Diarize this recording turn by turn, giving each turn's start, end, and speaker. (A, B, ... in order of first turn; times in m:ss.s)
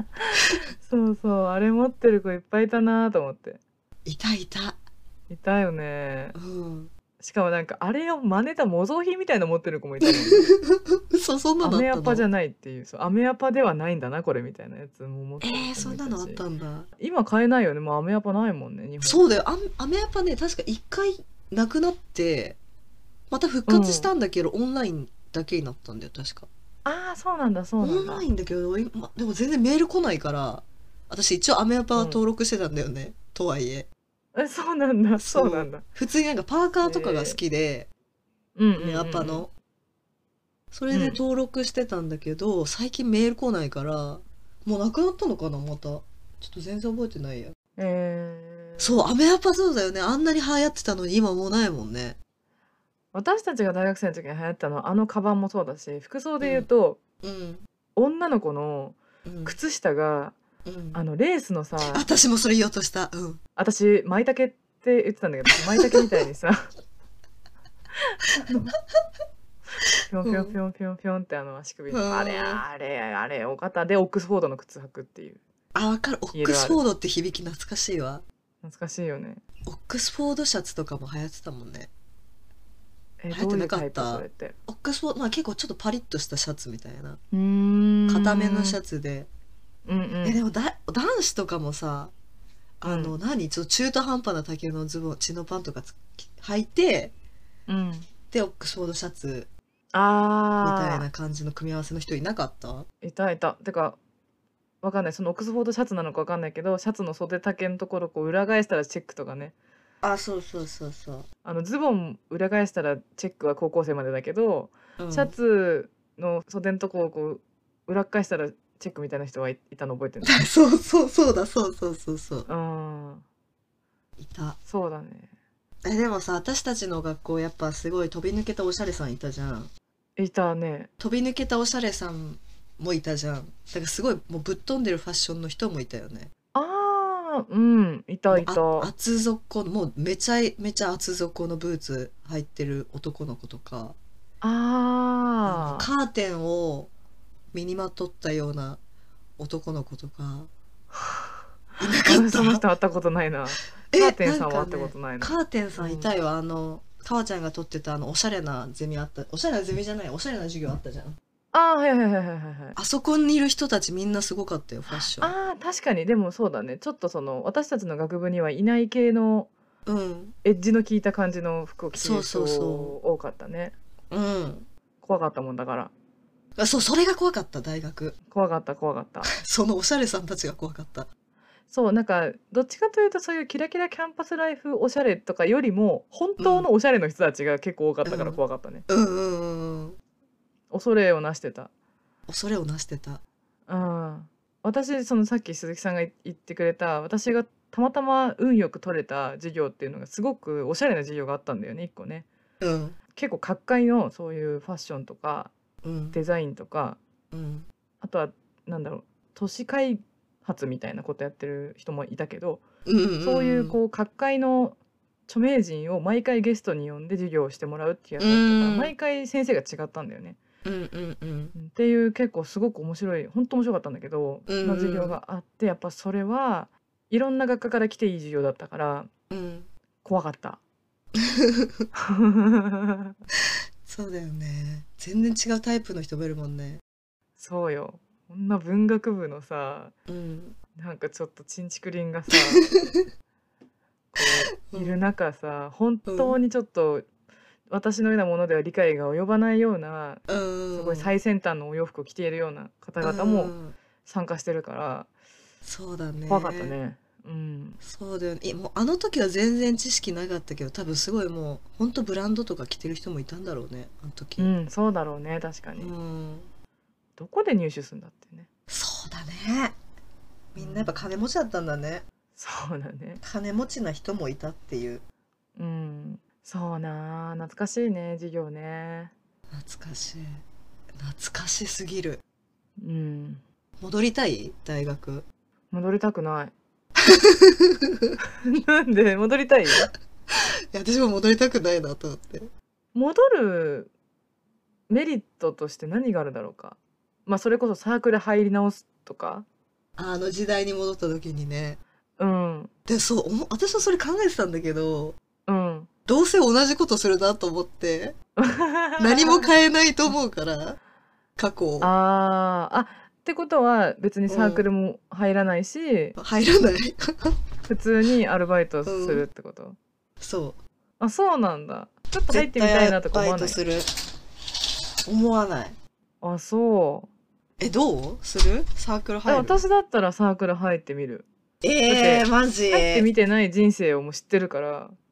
0:00.2-0:03.6 A
0:04.0-0:04.8 B
0:05.3-0:06.4 A
0:06.4-0:06.9 B
0:07.2-0:10.6 A
0:10.0-0:12.2 B
0:11.6-0:16.4 A
0:15.4-0:16.9 B
0:17.0-0:19.2 A
0:19.0-0:22.6 B
0:23.3-0:26.5 B
0:23.7-0:24.1 A
0:26.8-0:28.3 A
0:27.8-0:33.9 B
0:31.9-0:32.2 A
0:34.4-0:35.8 A
0:35.2-0:37.9 B
0:36.8-0:37.4 A
0:38.6-0:39.5 A
0:38.8-0:39.5 B
0:40.7-0:47.5 B
0:40.9-0:41.2 A
0:47.8-0:49.0 A
0:48.8-0:52.2 B
0:53.1-0:57.0 A
0:56.4-0:56.7 B
0:57.2-0:57.6 B
0:58.0-1:00.4 A
0:59.2-0:59.6 B
1:00.6-1:01.0 B
1:00.9-1:02.1 A
1:01.8-1:03.4 B
1:03.6-1:06.7 A
1:05.6-1:06.1 B
1:08.0-1:08.7 A
1:10.1-1:15.4 A
1:10.2-1:10.6 B
1:11.9-1:12.6 B
1:15.7-1:18.2 B
1:16.3-1:16.8 A
1:18.6-1:19.4 A
1:19.6-1:21.9 B
1:23.2-1:24.6 A
1:23.3-1:27.2 B
1:27.3-1:28.8 A
1:28.1-1:29.3 B
1:29.9-1:30.4 A
1:30.2-1:32.1 B
1:32.8-1:37.1 B
1:32.8-1:33.1 A
1:37.7-1:38.1 A
1:38.3-1:39.5 B
1:39.9-1:41.0 A
1:40.6-1:42.9 B
1:43.0-1:44.0 A
1:44.8-1:49.5 A
1:50.0-1:51.2 B
1:51.4-2:00.5 A
1:55.0-1:55.4 B
2:00.2-2:02.5 B
2:02.5-2:03.2 A
2:04.2-2:04.6 B
2:04.6-2:05.3 A
2:05.8-2:09.7 B
2:10.2-2:10.9 A
2:11.0-2:16.3 B
2:16.6-2:18.9 A
2:18.3-2:24.0 B
2:24.4-2:25.9 A
2:25.4-2:26.9 B
2:27.5-2:28.8 B
2:29.4-2:30.5 B
2:31.0-2:31.2 A
2:31.8-2:32.6 B
2:31.9-2:36.1 A
2:33.9-2:41.2 B
2:41.5-2:42.8 A
2:42.8-2:45.3 B
2:44.9-2:49.5 A
2:49.9-2:50.3 B
2:50.4-2:53.7 A
2:51.9-2:52.9 B
2:54.1-2:54.7 B
2:55.0-2:55.9 A
2:56.6-2:58.2 B
2:58.3-2:59.3 A
2:59.3-3:01.1 B
3:01.7-3:08.8 A
3:06.4-3:06.7 B
3:08.0-3:10.0 B
3:10.7-3:11.7 A
3:12.3-3:13.2 B
3:13.7-3:22.3 A
3:22.6-3:23.0 B
3:23.1-3:25.5 A
3:25.8-3:26.2 B
3:26.1-3:27.0 A
3:27.3-3:27.7 B
3:28.0-3:32.6 A
3:32.8-3:33.8 B
3:33.2-3:40.4 A
3:38.2-3:38.9 B
3:40.6-3:41.5 B
3:41.6-3:49.1 A
3:44.5-3:45.2 B
3:49.3-3:49.7 B
3:50.0-3:50.6 A
3:51.2-3:51.9 B
3:52.0-3:53.1 A
3:53.8-3:56.8 B
3:57.4-3:59.9 A
4:00.1-4:00.6 B
4:00.8-4:02.7 A
4:02.5-4:03.0 B
4:04.1-4:07.0 A
4:04.6-4:05.0 B
4:06.0-4:06.4 B
4:07.7-4:10.2 A
4:10.3-4:11.1 B
4:10.7-4:13.5 A
4:13.0-4:13.7 B
4:14.0-4:15.1 A
4:15.6-4:16.7 B
4:16.3-4:17.8 A
4:17.8-4:24.5 B
4:24.4-4:25.9 A
4:25.8-4:26.5 B
4:27.2-4:28.5 A
4:28.7-4:29.8 B
4:30.5-4:32.0 B
4:30.6-4:31.1 A
4:32.4-4:33.2 A
4:33.2-4:35.0 B
4:35.6-4:39.1 A
4:39.5-4:40.4 B
4:41.0-4:42.2 B
4:42.8-4:43.4 A
4:43.8-4:45.2 B
4:45.7-4:46.5 A
4:47.0-4:48.1 B
4:48.4-4:49.9 A
4:49.8-4:52.5 B
4:52.9-4:53.9 A
4:54.9-4:59.4 A
5:00.0-5:01.8 B
5:02.2-5:02.7 A
5:02.9-5:05.2 B
5:05.5-5:05.9 A
5:06.0-5:08.2 B
5:08.4-5:09.5 A
5:09.0-5:10.8 B
5:11.4-5:11.9 B
5:11.8-5:16.2 A
5:14.3-5:14.6 B
5:16.2-5:17.4 B
5:17.7-5:19.8 A
5:18.8-5:19.2 B
5:20.2-5:20.6 B
5:21.0-5:23.6 A
5:22.3-5:23.9 B
5:25.0-5:25.8 B
5:26.2-5:27.1 A
5:27.6-5:29.6 B
5:29.3-5:31.3 A
5:31.6-5:33.1 B
5:31.9-5:35.0 A